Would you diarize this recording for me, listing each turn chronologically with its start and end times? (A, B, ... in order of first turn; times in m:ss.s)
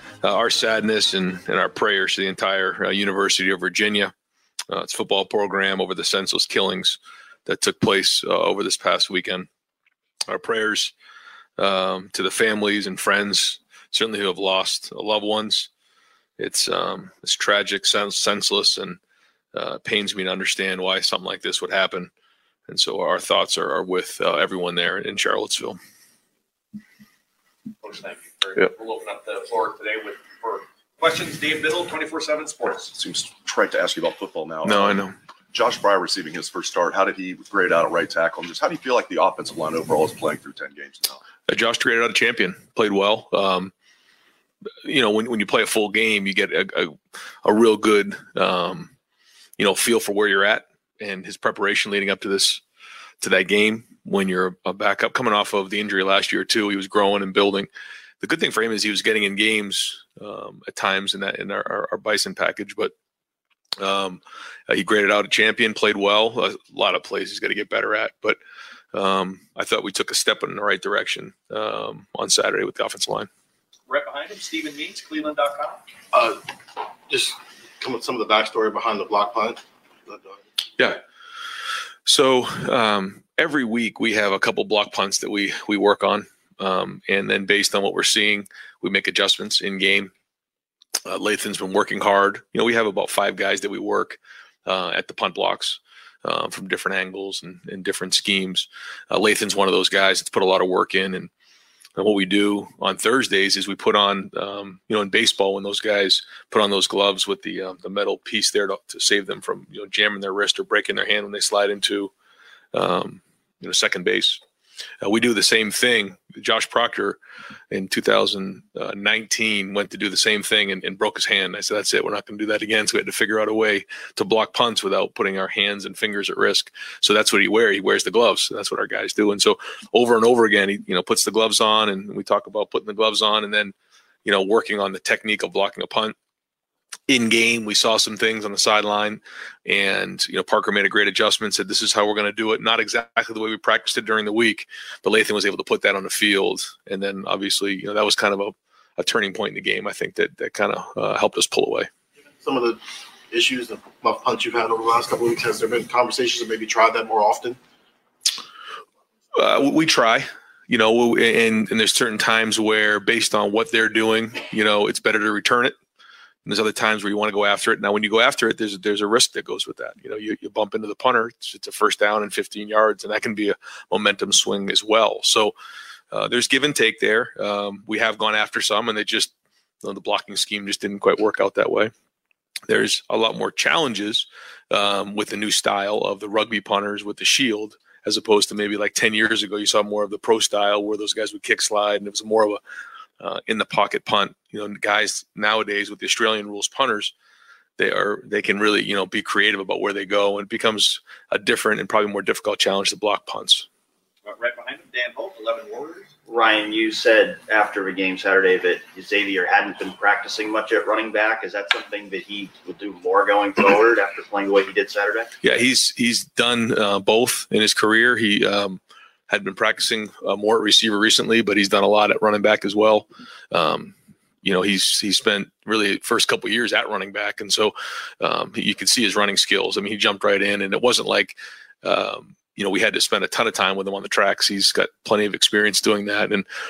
0:00.2-0:04.1 A
0:04.7-0:09.5 A
0:10.3-0:10.9 A
0:11.6-0:15.7 A
0:16.4-0:19.0 A
0:19.5-0:22.1 A
0:22.7-0:25.8 A
0:27.8-0:32.9 B
0:32.9-0:41.2 C
0:34.6-0:35.1 A
0:41.5-0:43.7 A
0:44.8-0:48.9 A
0:49.6-0:52.6 A
0:53.2-0:57.7 A
0:58.2-1:02.9 A
1:03.8-1:08.4 A
1:08.9-1:13.3 A
1:13.9-1:15.8 B
1:22.0-1:30.1 A
1:31.0-1:41.3 A
1:42.0-1:52.1 A
1:52.7-1:54.4 A
1:55.0-1:57.2 A
1:57.7-2:16.2 A
2:17.1-2:31.9 A
2:32.4-2:32.7 D
2:33.3-2:37.6 D
2:39.3-2:45.8 A
2:46.4-2:55.5 A
2:56.1-2:59.3 A
2:59.8-3:01.9 A
3:02.7-3:12.6 A
3:13.2-3:17.1 A
3:17.8-3:23.7 A
3:24.2-3:26.1 B
3:26.3-3:35.3 E
3:35.4-3:56.4 A